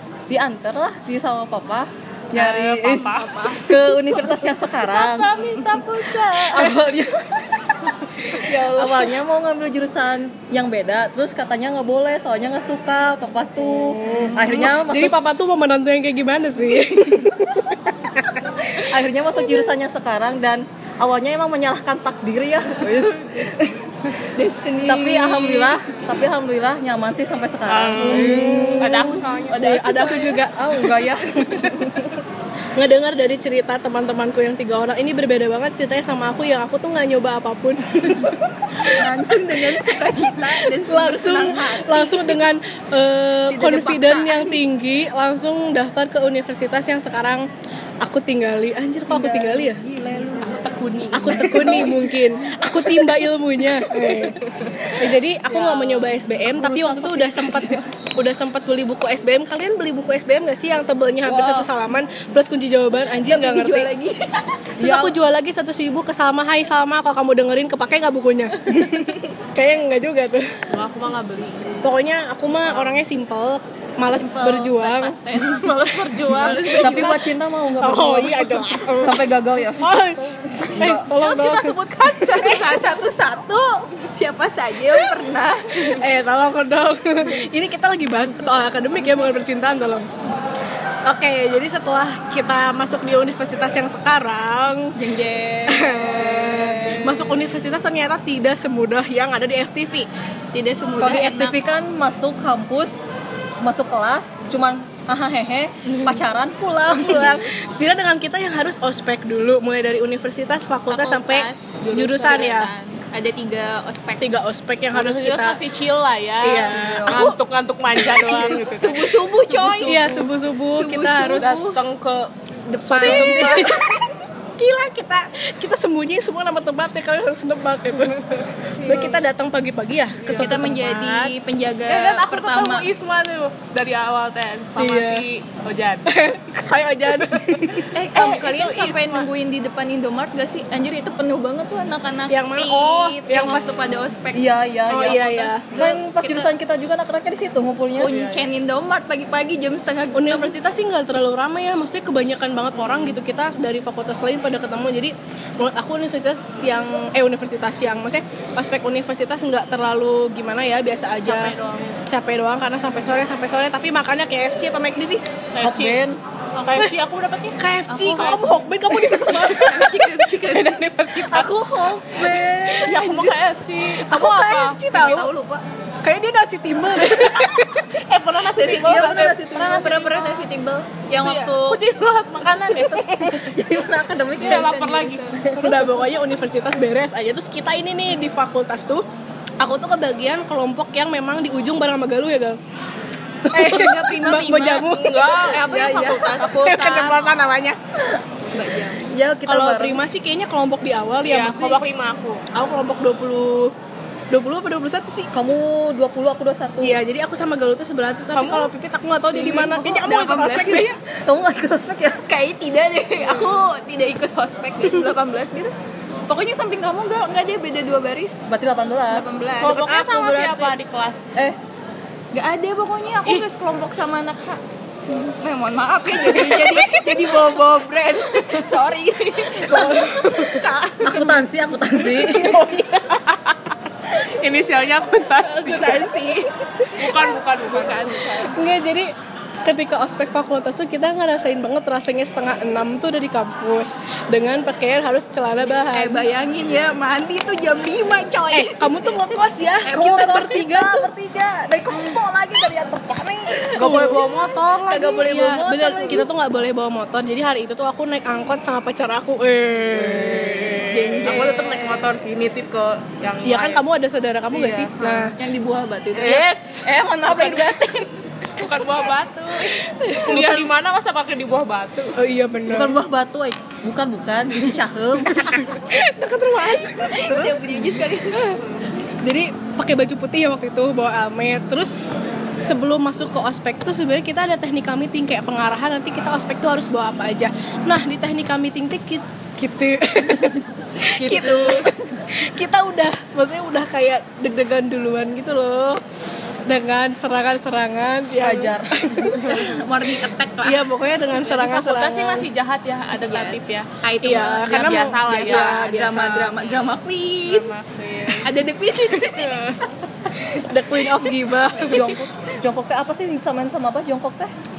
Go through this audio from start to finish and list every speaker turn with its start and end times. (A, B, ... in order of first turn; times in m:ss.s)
0:00.3-0:05.6 A
0:02.3-0:06.9 B
0:06.3-0:15.2 A
0:14.0-0:17.8 C
0:14.4-0:14.7 D
0:18.7-0:24.0 A
0:22.9-0:23.2 D
0:24.4-0:25.8 D
0:24.8-0:32.1 A
0:27.7-0:30.3 B
0:28.0-0:31.7 C
0:32.8-0:39.1 C
0:38.8-0:42.4 D
0:40.5-0:47.5 C
0:43.5-0:44.6 D
0:48.0-0:50.4 C
0:50.4-0:52.0 B
0:51.1-1:03.9 C
0:55.5-0:56.2 B
0:56.5-0:57.8 A
1:01.2-1:01.7 D
1:03.3-1:04.6 D
1:04.8-1:10.5 C
1:04.8-1:05.2 A
1:10.7-1:11.8 B
1:11.8-1:15.2 C
1:14.1-1:17.2 D
1:15.5-1:17.2 B
1:16.5-1:16.8 C
1:16.8-1:19.8 A
1:17.8-1:19.2 C
1:19.8-1:21.8 C
1:20.7-1:21.1 A
1:21.1-1:22.9 B
1:22.2-1:26.0 D
1:25.8-1:30.1 C
1:31.1-1:35.0 C
1:35.0-1:37.3 D
1:35.7-1:40.1 C
1:40.5-1:41.6 D
1:41.0-1:43.0 A
1:43.6-1:47.4 A
1:45.9-1:46.2 C
1:46.8-1:52.7 C
1:50.9-1:54.3 D
1:52.2-1:52.6 B
1:54.2-1:55.6 C
1:54.9-2:00.1 B
1:56.4-1:57.4 C
1:56.6-1:57.3 A
1:58.0-1:58.6 C
1:58.1-2:01.9 D
1:59.8-2:01.8 C
2:01.4-2:02.3 B
2:02.7-2:03.8 D
2:02.8-2:11.4 C
2:03.0-2:03.8 B
2:08.8-2:09.2 D
2:10.2-2:10.6 B
2:10.3-2:12.9 D
2:11.9-2:16.1 B
2:14.8-2:15.3 C
2:16.1-2:17.9 C
2:17.9-2:24.5 D
2:18.1-2:19.3 B
2:22.3-2:23.9 C
2:24.3-2:28.2 A
2:24.9-2:25.6 C
2:25.0-2:26.5 D
2:28.0-2:30.6 D
2:28.1-2:28.4 B
2:30.2-2:41.6 C
2:41.2-2:41.9 B
2:42.1-2:45.2 C
2:45.5-2:46.0 B
2:45.6-2:46.2 A
2:46.6-2:48.5 B
2:47.6-2:51.5 C
2:48.0-2:50.9 D
2:51.3-2:53.1 A
2:52.5-2:53.4 C
2:52.8-2:54.8 B
2:54.0-2:55.3 C
2:54.9-2:55.6 D
2:56.0-2:57.9 C
2:58.0-3:00.5 B
2:58.4-3:01.8 D
2:59.0-2:59.3 A
3:01.2-3:03.5 B
3:03.1-3:04.8 A
3:04.4-3:05.4 D
3:04.4-3:05.3 B
3:05.4-3:06.0 A
3:05.5-3:09.0 C
3:09.6-3:12.6 C
3:13.4-3:15.0 D
3:13.4-3:17.8 C
3:14.8-3:17.4 B
3:15.5-3:17.0 D
3:18.5-3:19.0 D
3:19.1-3:20.0 A
3:19.5-3:21.8 C
3:21.2-3:22.4 B
3:22.5-3:23.7 C
3:24.3-3:25.3 C
3:25.3-3:27.0 A
3:26.8-3:31.0 C
3:28.3-3:28.7 B
3:29.3-3:31.0 D
3:31.2-3:32.3 A
3:32.3-3:35.7 D
3:36.3-3:38.4 D
3:38.5-3:39.5 A
3:39.1-3:39.9 D
3:39.5-3:41.3 B
3:39.7-3:40.8 C
3:42.3-3:51.5 D
3:46.4-3:47.3 B
3:49.6-3:50.7 C
3:51.0-3:52.6 A
3:52.1-3:53.2 C
3:53.2-3:53.6 B
3:54.1-3:56.1 B
3:55.4-3:58.6 D
3:57.0-3:58.2 B
3:58.5-3:59.1 C
3:59.6-4:06.2 C
4:05.9-4:09.2 D
4:08.5-4:10.8 C
4:09.8-4:11.1 D
4:09.9-4:14.1 A
4:13.7-4:15.3 B
4:13.8-4:14.2 C
4:14.8-4:16.3 D
4:15.2-4:21.2 C
4:19.9-4:20.8 A
4:20.9-4:22.1 D
4:21.1-4:23.8 B
4:23.4-4:25.4 C
4:24.6-4:28.9 D
4:26.2-4:27.8 B
4:28.6-4:32.2 B
4:30.3-4:30.6 D
4:32.2-4:33.0 C
4:32.7-4:35.7 A
4:35.4-4:37.5 C
4:37.0-4:38.6 D
4:37.3-4:37.6 A
4:39.2-4:42.0 C
4:42.6-4:56.0 C
4:51.2-4:51.9 A
4:56.7-4:59.8 C
4:58.4-4:59.5 A
4:59.4-5:00.8 D
5:00.6-5:02.5 C
5:01.3-5:03.9 B
5:03.1-5:07.7 D
5:04.2-5:06.5 C
5:04.6-5:06.0 B
5:07.4-5:08.5 B
5:08.4-5:09.8 D
5:09.2-5:09.8 B
5:10.6-5:12.1 C
5:11.9-5:14.5 A